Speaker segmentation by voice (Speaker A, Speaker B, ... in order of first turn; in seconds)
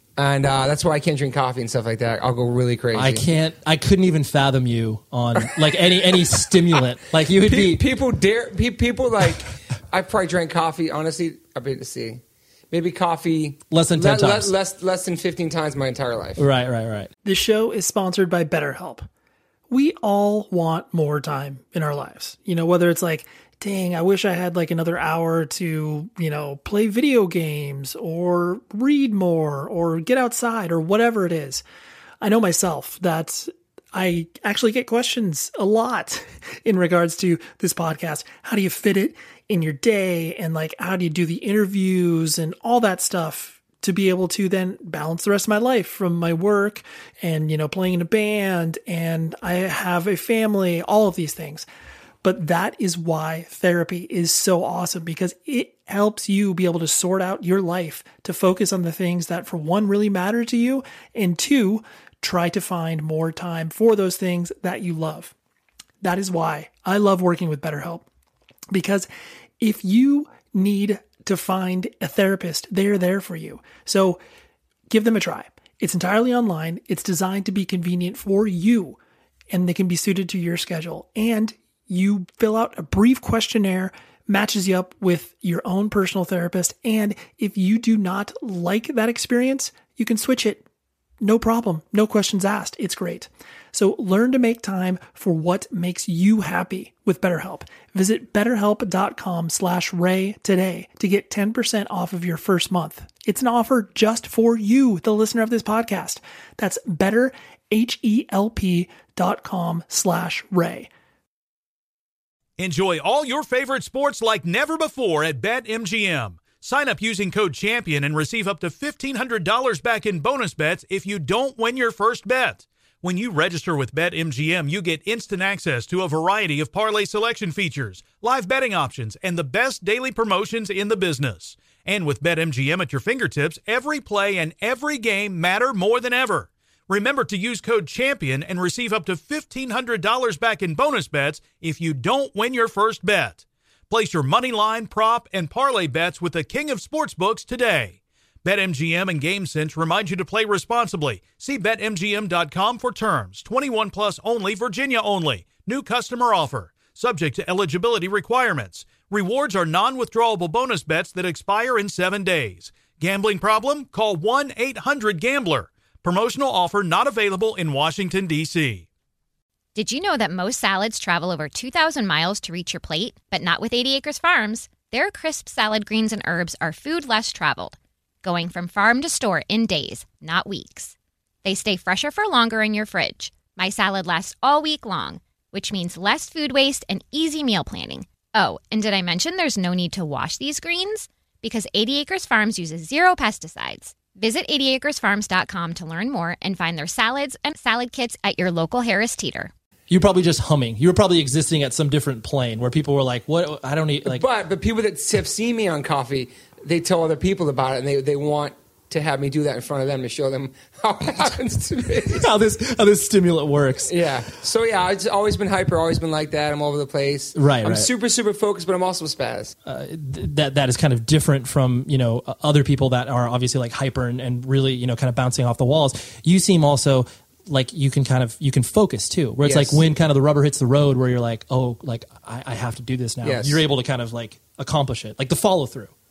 Speaker A: 0.2-3.3, 7.2-16.5, 204.1-212.3, 213.9-219.6, 229.4-229.9, 233.2-233.6
Speaker B: 2.9-7.8, 13.7-14.5, 16.4-17.1, 199.9-204.2, 212.2-213.9, 217.4-217.9, 219.7-235.9
Speaker C: 17.2-19.1, 19.7-31.6, 32.2-51.7, 52.2-65.3, 66.0-68.0, 68.7-69.1, 69.6-74.2, 74.9-79.0, 79.5-90.6, 91.2-110.9
Speaker D: 112.6-168.9
Speaker E: 169.8-199.5